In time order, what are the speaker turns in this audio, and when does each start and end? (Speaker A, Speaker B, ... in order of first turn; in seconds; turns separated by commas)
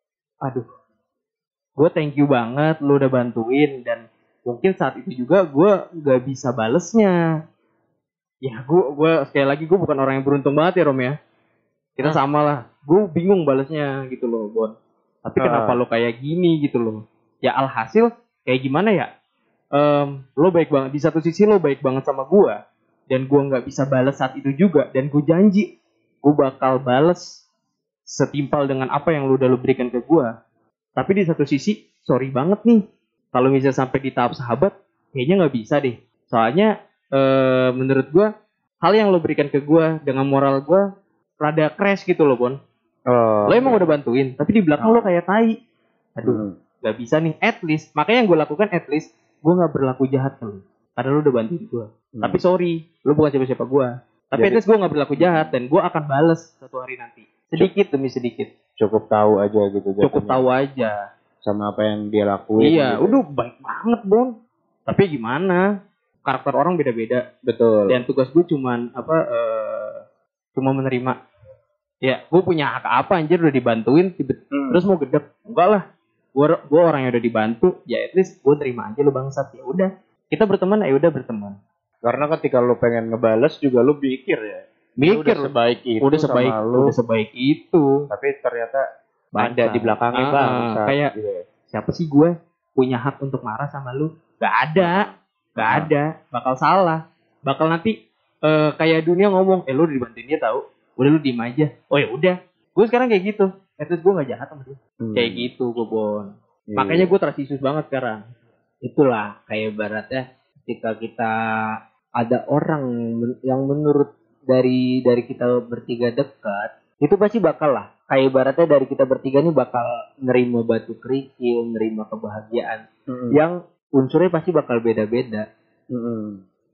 Speaker A: 1.8-7.2, Speaker A: 8.4-11.2, Speaker A: 12.0-19.1, Speaker B: 15.4-15.8, Speaker A: 19.8-22.6, Speaker A: 23.1-25.7, Speaker A: 26.2-27.3, Speaker A: 28.1-30.3, Speaker A: 31.0-32.8, Speaker A: 33.3-38.3, Speaker A: 38.8-40.8, Speaker A: 41.4-42.6, Speaker B: 43.1-43.9, Speaker A: 43.5-45.5, Speaker B: 44.8-45.1, Speaker A: 46.2-58.5, Speaker B: 46.2-46.5, Speaker B: 52.1-52.4, Speaker B: 54.4-54.6, Speaker B: 55.2-55.5, Speaker B: 58.8-60.5, Speaker A: 60.0-61.0, Speaker B: 61.4-63.2, Speaker A: 62.6-64.3, Speaker A: 64.9-65.6, Speaker A: 66.2-67.2, Speaker B: 67.5-68.0, Speaker A: 67.9-70.0, Speaker A: 70.6-71.2, Speaker A: 72.0-75.8, Speaker B: 74.5-74.8, Speaker A: 76.4-81.6, Speaker B: 82.0-86.9, Speaker A: 85.0-87.8, Speaker B: 88.1-88.8, Speaker A: 89.3-91.1, Speaker B: 89.4-91.5, Speaker A: 91.7-95.1, Speaker B: 94.8-95.9, Speaker A: 95.6-97.9, Speaker A: 98.5-108.2, Speaker B: 105.0-105.5, Speaker B: 106.7-107.1, Speaker C: 108.8-111.3, Speaker C: 112.2-125.5, Speaker B: 123.1-123.4, Speaker B: 125.9-126.4